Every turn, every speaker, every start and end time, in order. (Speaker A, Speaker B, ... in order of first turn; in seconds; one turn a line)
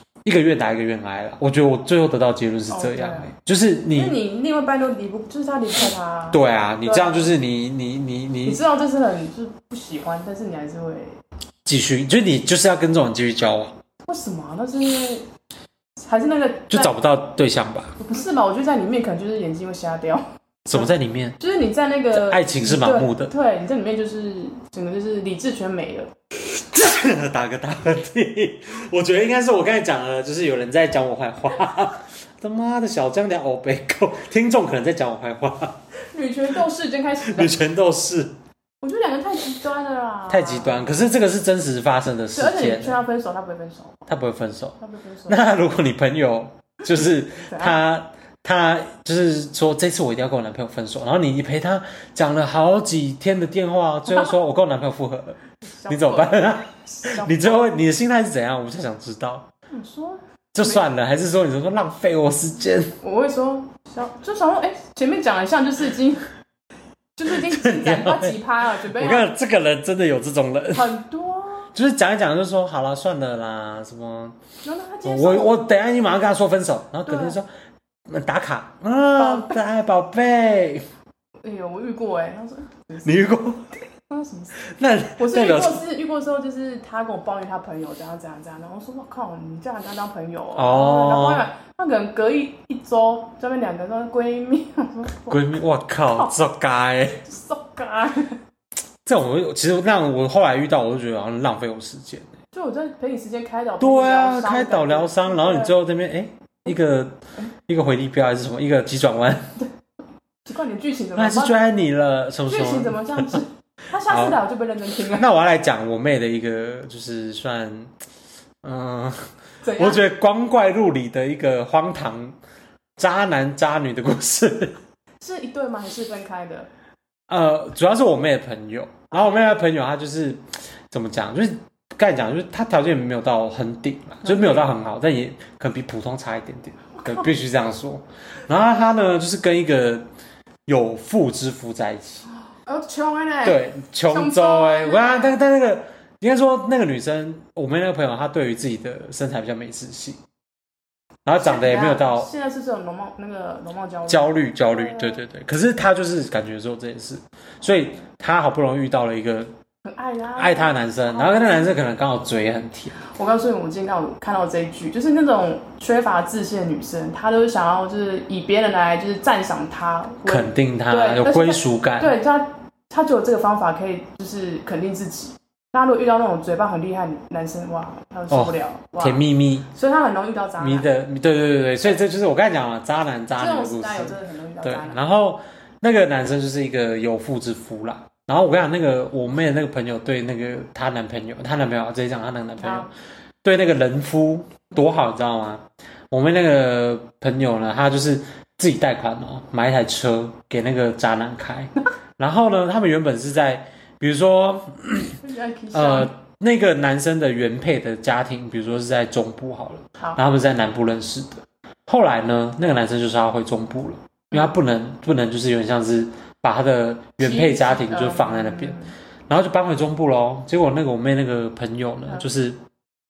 Speaker A: 0.2-4.2
Speaker B: 2.7-3.3
Speaker B: 3.9-7.3
Speaker A: 6.3-8.6
Speaker B: 8.4-11.2
Speaker A: 11.7-13.8
Speaker B: 14.1-15.3
Speaker B: 16.0-16.9
Speaker A: 16.7-18.0
Speaker B: 18.0-26.1
Speaker A: 20.7-21.4
Speaker A: 22.1-23.3
Speaker A: 26.5-35.8
Speaker B: 36.1-37.6
Speaker A: 37.2-38.4
Speaker B: 38.8-41.0
Speaker A: 40.3-43.0
Speaker B: 42.4-44.0
Speaker A: 44.1-59.5
Speaker B: 44.8-45.4
Speaker B: 47.0-47.8
Speaker B: 55.6-57.7
Speaker B: 59.7-60.8
Speaker A: 60.5-63.0
Speaker B: 63.0-66.3
Speaker B: 67.2-69.3
Speaker A: 67.3-71.0
Speaker B: 70.7-71.7
Speaker A: 71.7-74.4
Speaker B: 74.6-75.6
Speaker A: 75.0-77.5
Speaker B: 77.1-77.4
Speaker A: 78.1-80.9
Speaker B: 79.2-79.6
Speaker B: 81.4-83.4
Speaker A: 83.0-83.8
Speaker B: 84.0-95.4
Speaker A: 84.6-85.8
Speaker A: 90.5-91.5
Speaker A: 95.3-97.2
Speaker B: 97.2-98.4
Speaker A: 99.0-102.3
Speaker B: 102.5-105.7
Speaker A: 103.8-109.6
Speaker B: 110.5-111.6
Speaker A: 111.2-113.4
Speaker B: 112.5-115.3
Speaker A: 114.1-114.4
Speaker A: 115.0-117.9
Speaker A: 118.6-122.3
Speaker B: 119.6-120.0
Speaker A: 123.0-124.8
Speaker B: 125.2-126.7
Speaker A: 127.3-140.1
Speaker B: 134.2-134.7
Speaker B: 137.0-137.3
Speaker A: 140.7-142.3
Speaker B: 142.5-145.4
Speaker A: 143.4-150.2
Speaker A: 151.3-152.3
Speaker B: 151.4-155.2
Speaker A: 154.1-159.5
Speaker B: 159.8-161.8
Speaker A: 160.4-163.0
Speaker B: 163.0-180.9
Speaker A: 170.2-172.1
Speaker A: 178.3-179.7
Speaker A: 180.6-192.9
Speaker B: 183.4-185.0
Speaker B: 192.6-192.9
Speaker A: 193.4-205.2
Speaker B: 205.2-206.1
Speaker A: 205.7-218.8
Speaker B: 217.2-218.9
Speaker A: 219.3-222.6